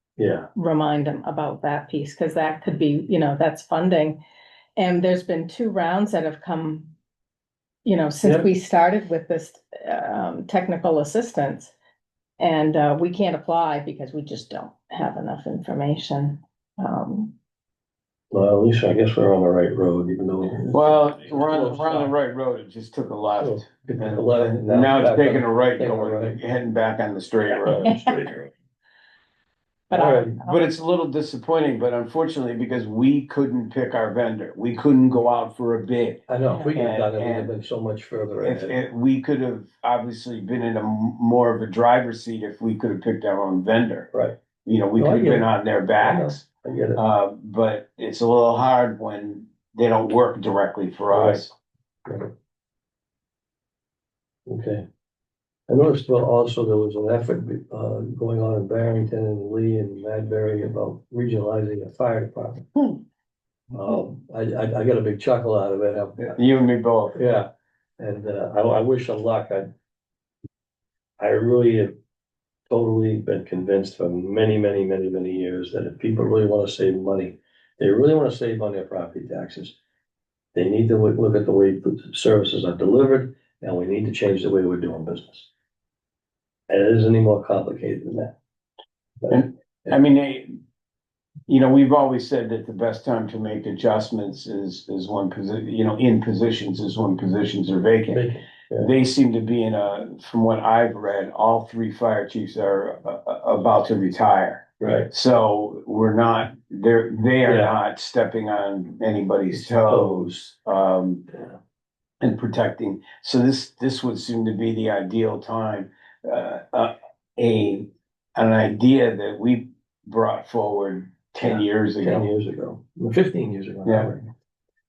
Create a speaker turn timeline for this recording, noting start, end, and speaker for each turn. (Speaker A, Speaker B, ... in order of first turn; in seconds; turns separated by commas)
Speaker A: 0.2-0.5, Speaker B: 0.5-4.2, Speaker B: 4.8-6.9, Speaker B: 7.8-11.7, Speaker B: 12.4-17.3, Speaker A: 18.3-22.1, Speaker C: 20.7-28.0, Speaker A: 23.4-26.4, Speaker A: 27.7-28.5, Speaker B: 27.8-28.2, Speaker B: 29.9-30.6, Speaker A: 29.9-30.4, Speaker C: 30.4-37.5, Speaker A: 36.3-38.8, Speaker B: 36.5-36.8, Speaker C: 38.4-44.1, Speaker C: 44.6-46.4, Speaker A: 45.0-47.0, Speaker C: 47.0-51.5, Speaker A: 51.1-51.5, Speaker A: 52.0-52.3, Speaker A: 54.5-54.8, Speaker A: 55.7-62.7, Speaker A: 63.7-66.3, Speaker C: 66.2-67.2, Speaker A: 67.1-67.5, Speaker A: 68.0-69.7, Speaker A: 71.2-71.9, Speaker A: 72.7-79.8, Speaker A: 80.5-85.5, Speaker A: 86.7-88.3, Speaker C: 89.3-90.5, Speaker C: 91.5-111.3, Speaker A: 98.1-98.9, Speaker A: 104.8-105.1, Speaker A: 107.5-107.7, Speaker A: 109.5-110.5, Speaker C: 112.2-122.2, Speaker A: 121.4-124.3, Speaker C: 123.8-124.1